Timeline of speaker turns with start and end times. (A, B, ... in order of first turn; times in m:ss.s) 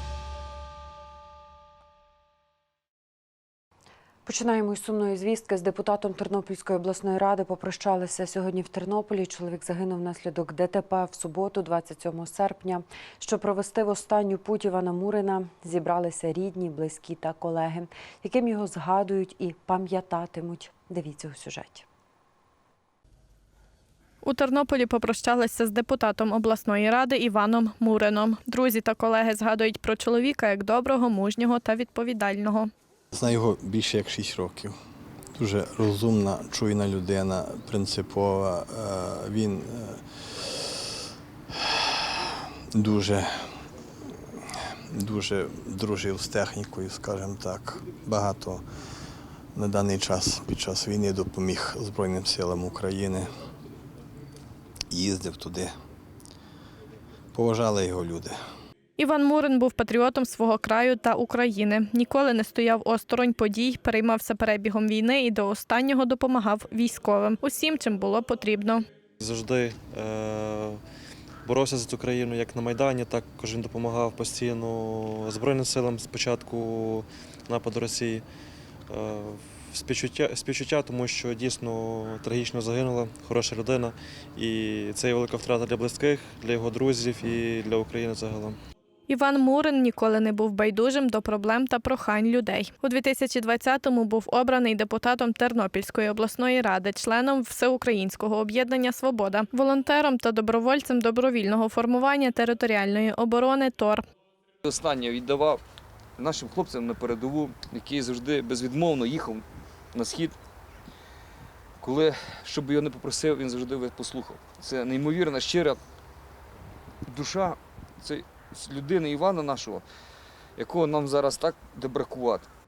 0:04.2-0:21.8 A
0:24.2-0:32.7 B
0:33.1-0:34.7 C
0:35.4-0:40.6 C
0:42.7-0:43.3 C
0:44.9-0:48.6 C
0:49.5-0:53.3 C
0:54.9-0:55.7 C
0:57.3-0:58.3 C
0:59.0-1:08.8 B
1:09.2-1:10.8 D
1:11.4-1:18.2 D
1:18.9-1:28.6 D
1:29.1-1:44.0 B
1:44.6-1:45.6 E
1:46.2-1:50.4 E
1:51.8-1:55.8 E
1:57.1-1:59.8 E
2:00.6-2:02.5 E